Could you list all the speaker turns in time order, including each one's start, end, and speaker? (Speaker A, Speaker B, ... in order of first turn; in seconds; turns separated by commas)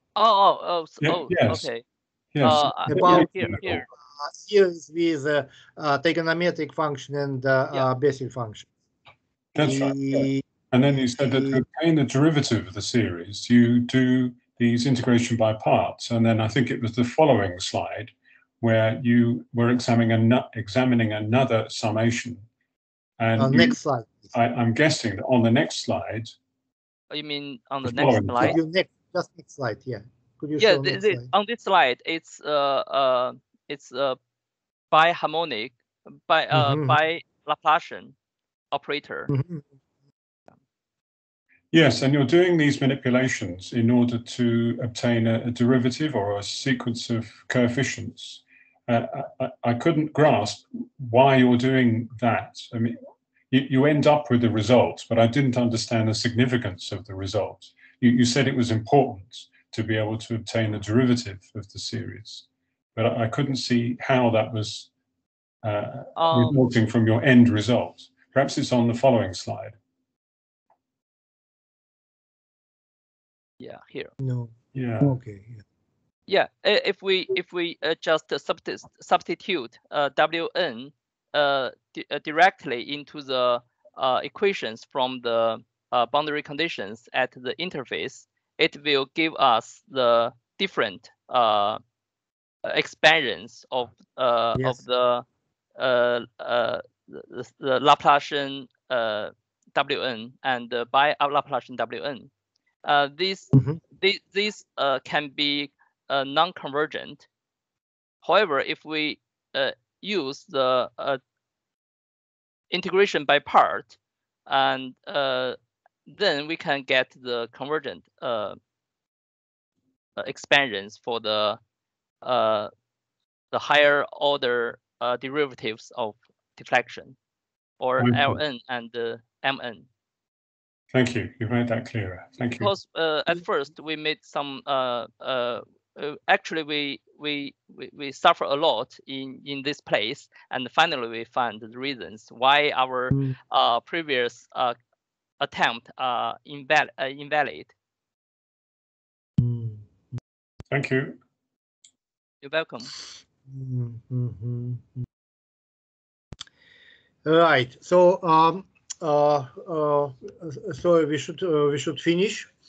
Speaker A: 0.1-1.8, Speaker B: 1.0-1.7, Speaker B: 2.3-3.8, Speaker A: 2.4-3.9, Speaker C: 2.9-8.7, Speaker B: 9.5-22.4, Speaker C: 9.6-10.4, Speaker C: 11.2-11.6, Speaker B: 23.2-23.8, Speaker C: 23.4-24.3, Speaker B: 24.3-26.4, Speaker A: 27.1-28.6, Speaker B: 27.8-28.6, Speaker C: 28.0-31.3, Speaker A: 30.6-34.2, Speaker A: 34.9-35.8, Speaker A: 36.3-38.1, Speaker C: 36.5-37.0, Speaker A: 38.7-39.3, Speaker C: 39.3-39.6, Speaker B: 41.7-53.0, Speaker B: 53.5-64.9, Speaker B: 65.6-69.8, Speaker A: 66.2-66.6, Speaker A: 73.6-74.1, Speaker C: 74.2-75.6, Speaker B: 74.7-75.2, Speaker A: 76.3-91.8, Speaker A: 92.6-95.2, Speaker C: 94.5-94.8, Speaker A: 95.8-102.3, Speaker A: 102.8-107.3, Speaker C: 103.5-103.8, Speaker A: 108.2-111.2, Speaker A: 112.7-115.5, Speaker A: 116.1-118.5, Speaker A: 120.2-121.6, Speaker A: 122.2-122.7, Speaker A: 123.5-127.2, Speaker A: 127.8-129.8, Speaker B: 128.0-128.4, Speaker B: 130.9-132.7, Speaker A: 132.6-144.7, Speaker A: 145.4-147.7, Speaker C: 149.4-149.9, Speaker B: 150.7-151.2, Speaker A: 152.4-152.9, Speaker C: 153.5-155.0, Speaker C: 157.2-162.5